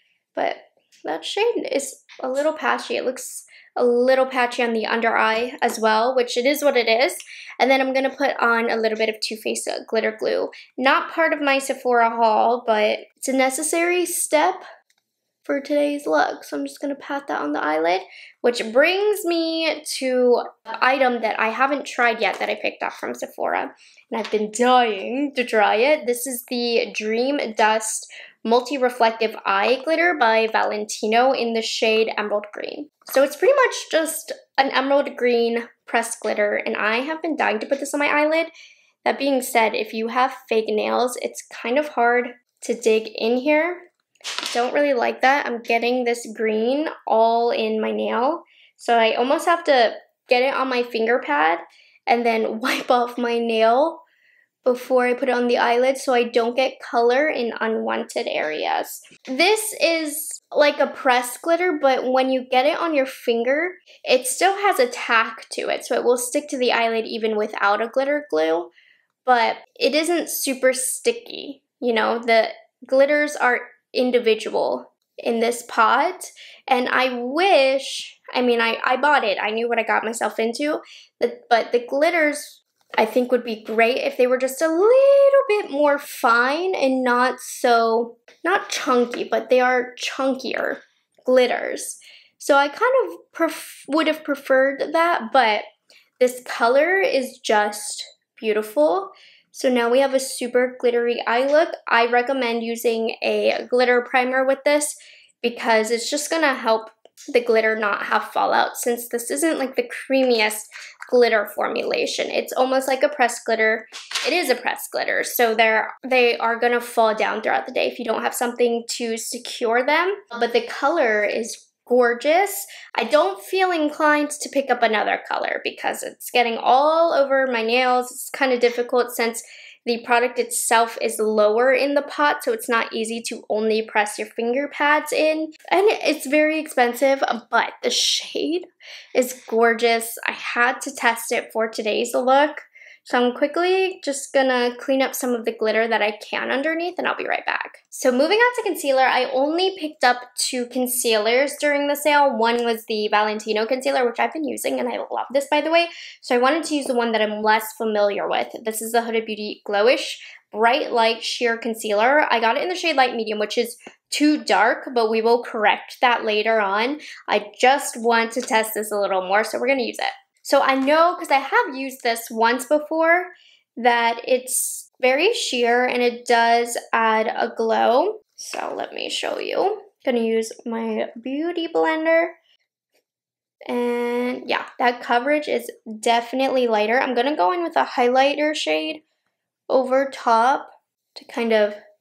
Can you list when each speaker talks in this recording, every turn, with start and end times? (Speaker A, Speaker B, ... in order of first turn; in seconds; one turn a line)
Speaker A: 0.3-14.6
Speaker A: 15.4-38.5
Speaker A: 39.0-43.9
Speaker A: 44.5-54.0
Speaker A: 54.6-68.7
Speaker A: 69.2-95.6
Speaker A: 96.2-182.4
Speaker A: 183.7-189.0
Speaker A: 189.7-191.8